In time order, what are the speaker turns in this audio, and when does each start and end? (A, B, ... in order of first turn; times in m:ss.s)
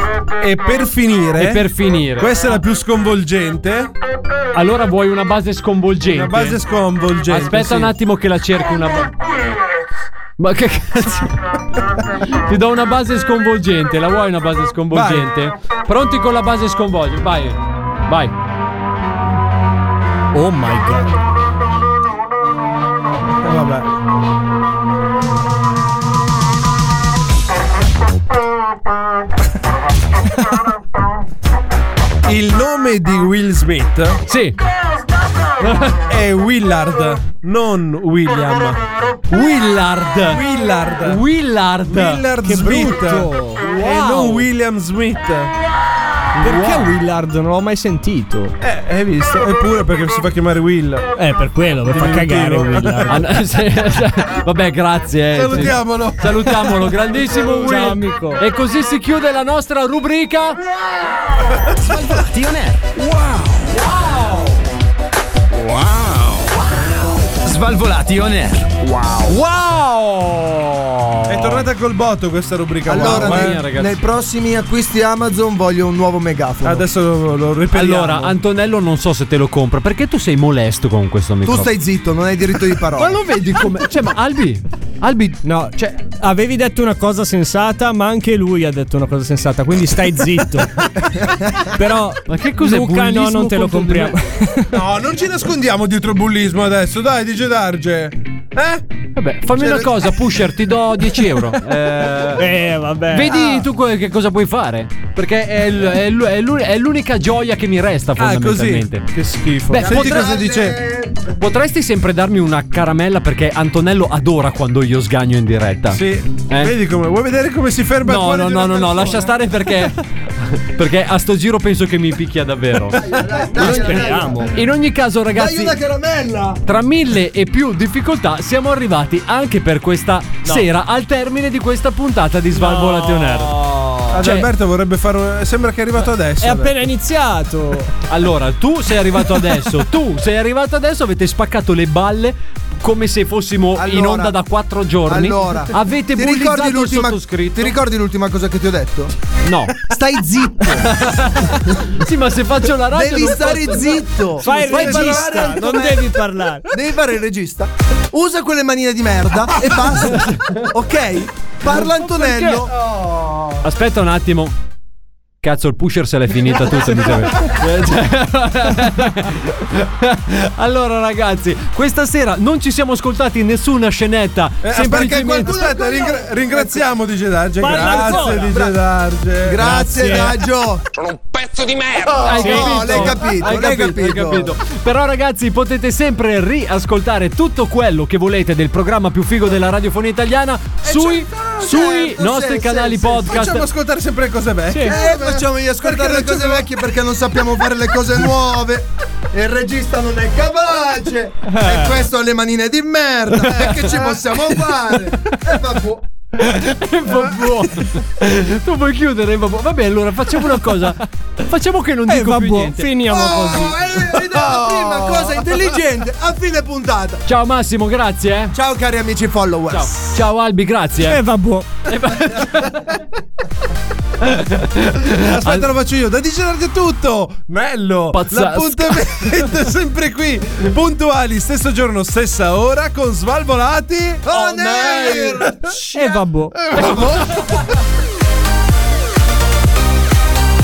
0:00.4-0:03.9 A
0:01.4-0:02.6 B
0:04.5-0:06.6 B
0:06.1-0:07.9 A
0:07.3-0:09.1 B
0:10.4-0:11.4 B
0:12.3-0:18.3 B
0:14.9-0:15.3 A
0:20.3-0:21.2 C
0:23.4-0:23.9 A
0:32.2-0:34.2 A
0:34.3-0:34.6 B
0:35.6-0:36.0 B
0:36.1-0:38.8 A
0:39.3-0:40.4 B
0:40.2-0:41.2 A
0:41.0-0:42.2 B
0:41.9-0:45.5 A
0:42.4-0:44.5 C
0:46.4-0:48.6 C
0:46.4-0:46.9 B
0:48.6-0:51.1 A
0:51.2-0:53.2 C
0:51.8-0:53.3 A
0:53.1-1:00.6 B
0:55.3-0:57.9 A
0:57.6-0:58.4 C
1:02.1-1:03.8 D
1:05.5-1:06.6 D
1:07.2-1:09.4 D
1:09.3-1:11.6 B
1:11.3-1:13.6 A
1:12.8-1:16.8 E
1:12.9-1:14.0 B
1:16.6-1:18.4 A
1:17.7-1:21.7 B
1:21.4-1:23.2 E
1:23.0-1:25.4 B
1:25.4-1:30.9 C
1:31.7-1:34.7 C
1:32.3-1:34.1 B
1:34.7-1:38.8 A
1:39.1-1:42.4 B
1:39.5-1:40.6 A
1:42.4-1:43.7 C
1:43.1-1:49.1 B
1:48.2-1:50.8 A
1:49.7-1:50.3 B
1:49.8-1:51.2 E
1:51.4-1:56.7 B
1:55.9-1:59.4 A
1:58.0-2:05.8 B
2:02.9-2:03.4 A
2:03.0-2:04.5 E
2:03.6-2:04.5 C
2:05.3-2:06.6 E
2:06.6-2:13.6 B
2:12.5-2:14.2 C
2:14.1-2:16.9 A
2:14.1-2:14.5 B
2:16.4-2:17.9 C
2:18.1-2:27.8 B
2:23.7-2:24.4 E
2:25.0-2:29.1 E
2:29.4-2:29.8 B
2:29.8-2:30.9 E
2:30.7-2:35.5 B
2:32.9-2:34.5 E
2:34.4-2:36.0 A
2:34.4-2:36.7 C
2:35.6-2:35.9 E
2:36.7-2:42.7 E
2:40.1-2:40.6 B
2:41.8-2:42.6 C
2:42.5-2:43.6 A
2:43.6-2:44.5 B
2:45.4-2:55.6 B
2:46.7-2:47.2 A
2:54.6-2:59.8 A
2:54.9-2:56.9 E
2:57.6-2:58.5 C
2:57.9-2:58.7 E
2:59.4-3:00.8 E
2:59.6-3:00.4 C
3:01.1-3:02.1 D
3:02.2-3:13.7 B
3:02.3-3:02.9 A
3:02.4-3:02.9 C
3:02.4-3:04.5 E
3:10.8-3:13.3 E
3:13.2-3:16.7 A
3:14.7-3:15.0 C
3:14.8-3:26.0 E
3:21.5-3:21.9 C
3:23.4-3:24.5 A
3:26.4-3:33.3 B
3:32.1-3:33.8 C
3:33.1-3:37.2 E
3:33.9-3:35.7 A
3:37.2-3:38.5 B
3:38.5-3:40.0 E
3:39.7-3:41.2 B
3:41.0-3:41.7 C
3:41.8-3:43.0 B
3:44.2-3:45.7 B
3:45.0-3:55.7 A
3:48.1-3:49.3 B
3:54.2-3:56.2 E
3:54.4-3:56.6 C
3:56.6-3:57.6 A